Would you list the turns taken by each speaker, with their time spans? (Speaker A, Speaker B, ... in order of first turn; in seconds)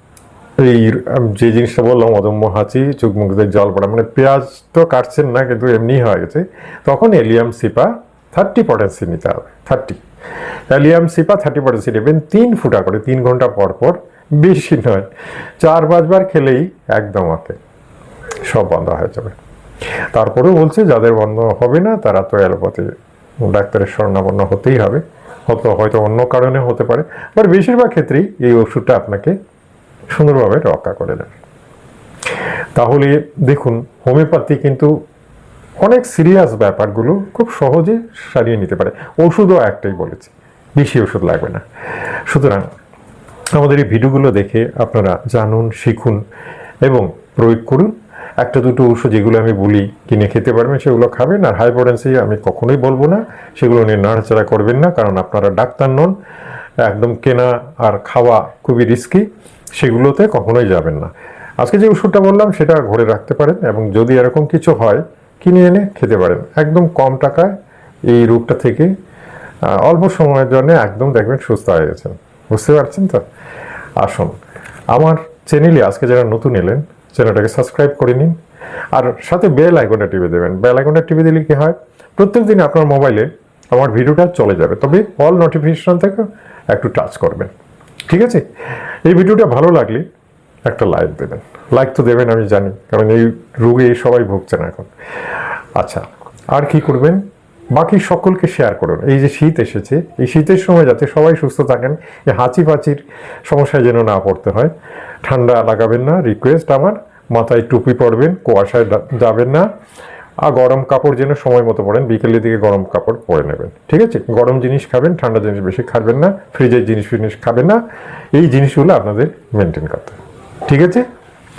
Speaker A: 0.6-10.0, 10.7-15.1, 15.6-17.6, 18.5-19.4, 20.1-29.3, 30.1-31.3, 32.8-34.9, 35.8-41.6, 42.3-42.7, 43.5-46.2, 46.8-56.1, 56.8-59.2, 59.8-67.5, 68.1-68.9, 69.7-73.2, 74.0-74.3, 74.9-78.3, 78.9-87.5, 88.1-88.4, 89.0-90.0, 90.7-94.9, 95.8-97.2, 97.7-104.7, 105.2-109.7, 110.4-117.8, 118.3-121.0